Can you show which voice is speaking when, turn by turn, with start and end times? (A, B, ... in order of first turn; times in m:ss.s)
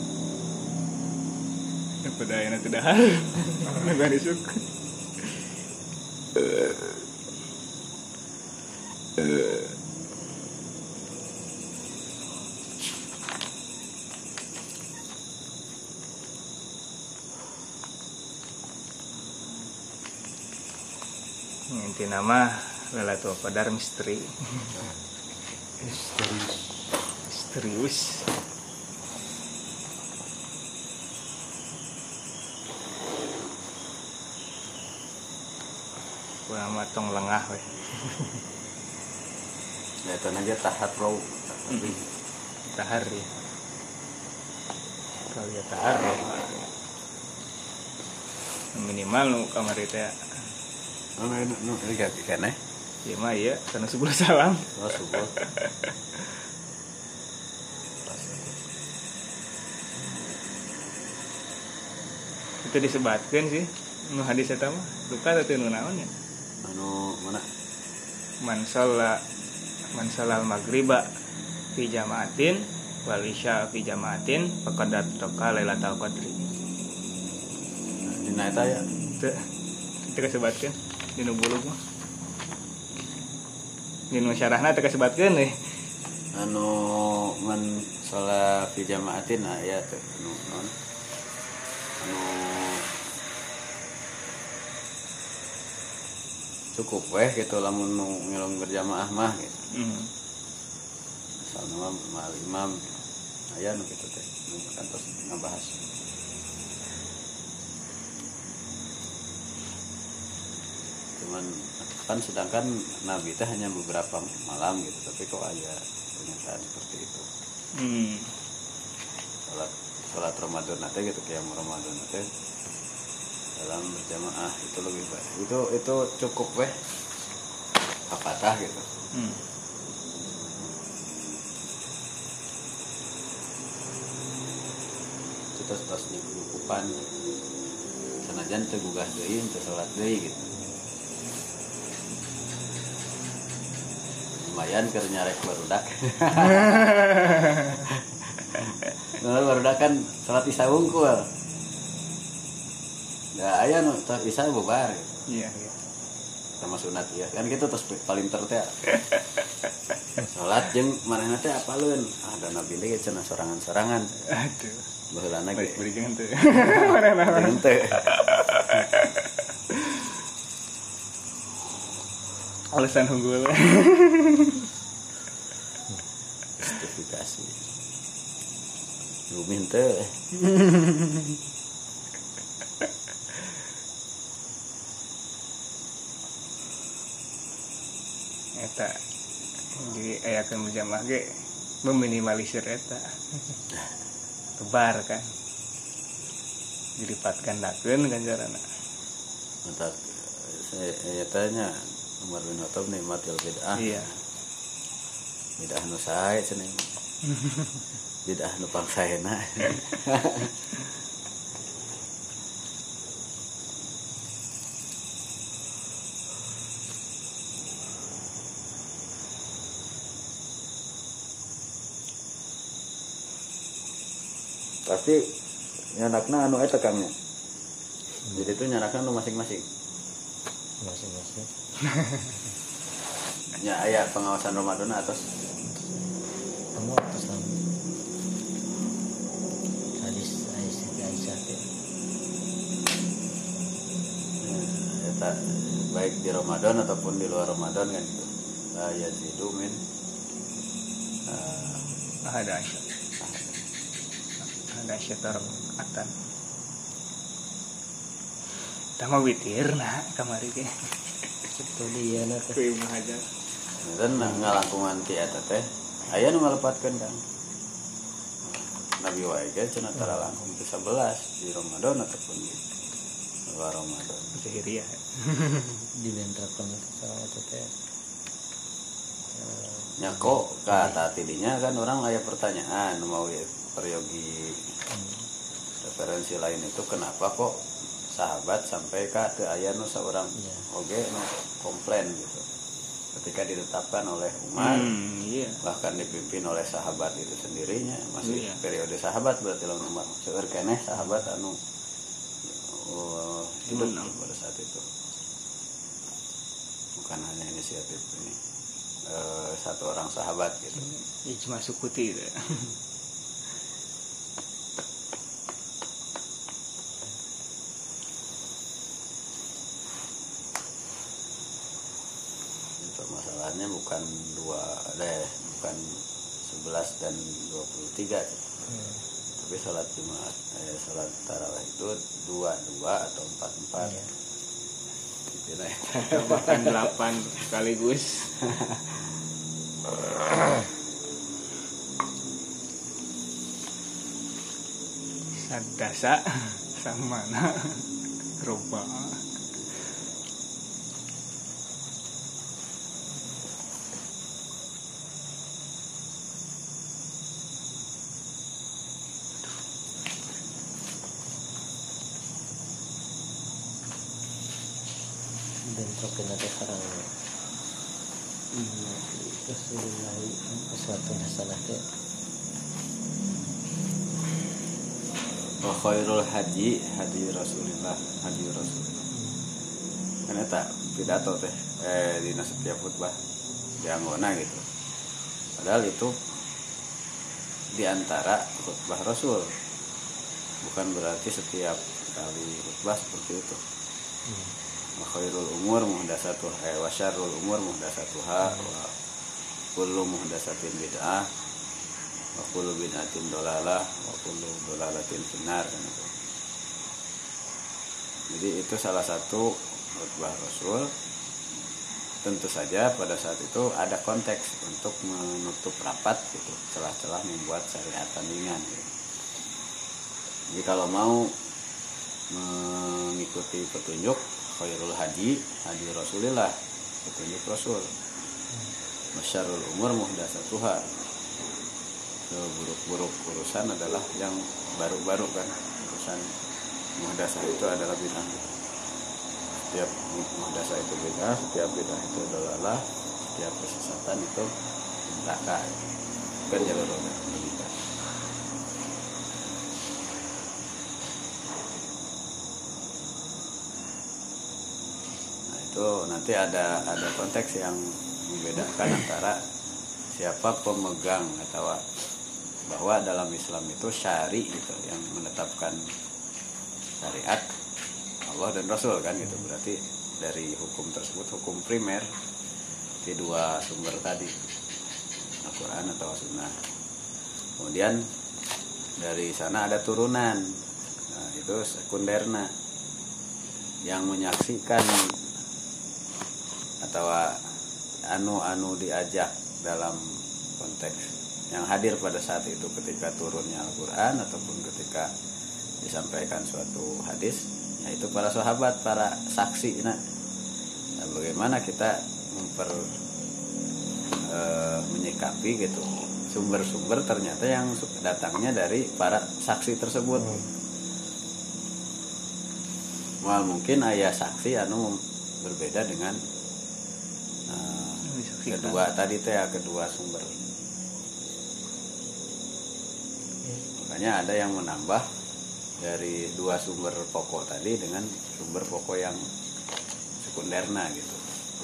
0:02.0-0:04.6 A
0:21.7-0:24.8 A
0:25.8-0:26.6 A
0:27.3-0:28.3 A
0:36.5-0:38.4 A
0:40.1-0:42.0 B
0:41.7-0:42.0 A
0:42.7-0:43.3 A
0:45.3-0:46.7 A
0:48.7-0:50.1 A
0:51.2-0:52.6 B
0:53.0-0:55.7 A
0:54.8-0:55.3 B
0:58.0-0:58.6 B
1:02.6-1:06.1 A
1:06.6-1:07.4 B
1:08.4-1:09.2 A
1:10.0-1:11.1 A
1:11.8-1:16.4 A
1:18.1-1:18.9 B
1:20.0-1:21.8 A
1:24.1-1:25.5 A
1:26.4-1:30.7 B
1:32.0-1:33.0 B
1:36.8-1:39.6 B
1:39.7-1:40.1 A
1:41.4-1:42.8 B
1:43.5-1:45.8 B
1:51.2-1:57.3 B
1:57.8-1:58.3 A
1:59.5-2:02.3 B
2:03.6-2:06.8 B
2:08.1-2:08.9 B
2:09.1-2:09.4 A
2:15.6-2:17.0 B
2:18.2-2:20.5 B
2:24.4-2:27.1 B
2:26.4-2:27.9 A
2:28.6-2:31.3 B
2:33.4-2:35.1 B
2:35.3-2:35.7 A
2:36.6-2:38.7 B
2:38.9-2:39.2 A
2:40.3-2:44.1 B
2:44.3-2:44.8 A
2:45.1-2:45.8 B
2:45.6-2:47.6 A
2:47.3-2:48.1 B
2:48.2-2:49.1 A
2:49.8-2:50.0 A
2:52.7-2:54.6 A
2:56.6-2:57.6 B
2:59.3-3:00.2 B
3:08.6-3:09.0 A
3:09.8-3:11.3 A
3:11.8-3:13.2 A
3:14.6-3:15.3 A
3:17.0-3:18.6 A
3:19.6-3:24.2 B
3:23.8-3:24.1 A
3:25.6-3:26.9 B
3:27.3-3:27.7 A
3:28.3-3:30.5 B
3:44.9-3:45.2 B
3:46.0-3:47.1 B
3:48.3-3:49.7 B
3:50.8-3:51.5 C
3:51.9-3:52.3 A
3:53.6-3:55.3 B
3:55.6-3:56.1 C
3:56.8-3:57.6 C
4:00.0-4:01.7 C
4:04.4-4:09.8 B
4:11.3-4:11.9 B
4:12.2-4:12.8 A
4:13.2-4:13.6 B
4:14.5-4:16.1 A
4:19.0-4:20.7 A
4:21.6-4:22.6 C
4:22.5-4:23.3 A
4:23.8-4:27.2 B
4:24.2-4:24.5 C
4:28.4-4:32.7 B
4:33.5-4:34.4 B
4:34.4-4:35.8 A
4:35.9-4:37.7 C
4:39.3-4:41.0 C
4:40.0-4:44.7 B
4:44.9-4:45.3 C
4:45.8-4:52.5 B
4:53.1-4:54.9 B
4:54.6-4:55.6 A
4:55.6-5:01.6 B
4:58.2-4:58.6 A
5:02.5-5:04.8 B
5:03.7-5:04.2 A
5:07.0-5:08.4 B
5:09.0-5:10.9 B
5:10.8-5:12.7 A
5:22.8-5:28.6 B
5:28.7-5:29.0 C
5:29.4-5:34.0 B
5:33.8-5:34.1 C
5:35.3-5:36.8 B
5:35.9-5:38.3 A
5:38.4-5:38.8 B
5:45.4-5:47.8 A
5:48.4-5:49.2 A
6:05.6-6:07.1 C
6:08.6-6:11.8 C
6:15.6-6:19.1 B
6:20.3-6:23.2 B
6:23.8-6:24.6 B
6:25.6-6:26.2 B
6:27.7-6:29.6 B
6:30.6-6:33.6 B
6:34.3-6:34.6 C
6:35.0-6:38.9 B
6:39.8-6:41.3 B
6:42.4-6:46.2 B
6:48.3-6:50.9 B
6:52.2-6:58.9 B
7:00.5-7:01.4 B
7:02.3-7:07.9 B
7:09.2-7:10.9 B
7:12.3-7:16.3 B
7:17.0-7:18.6 B
7:19.6-7:22.8 B
7:23.4-7:24.5 B
7:25.1-7:25.8 B
7:26.5-7:27.8 B
7:35.5-7:39.4 B
7:40.1-7:41.9 B
7:42.7-7:45.8 B
7:47.0-7:47.5 B
7:48.2-7:52.2 B
7:53.0-7:54.4 B
7:55.4-7:56.6 B
7:57.6-7:58.1 B
7:59.0-8:02.5 B
8:03.9-8:05.0 B
8:06.8-8:07.4 B
8:08.1-8:10.0 B
8:10.6-8:15.1 B
8:15.8-8:20.0 B
8:21.0-8:22.9 B
8:24.3-8:30.4 B
8:33.2-8:36.2 B
8:37.5-8:40.4 B
8:38.0-8:38.8 A
8:43.8-8:45.1 B
8:45.8-8:49.3 B
8:50.2-8:51.2 B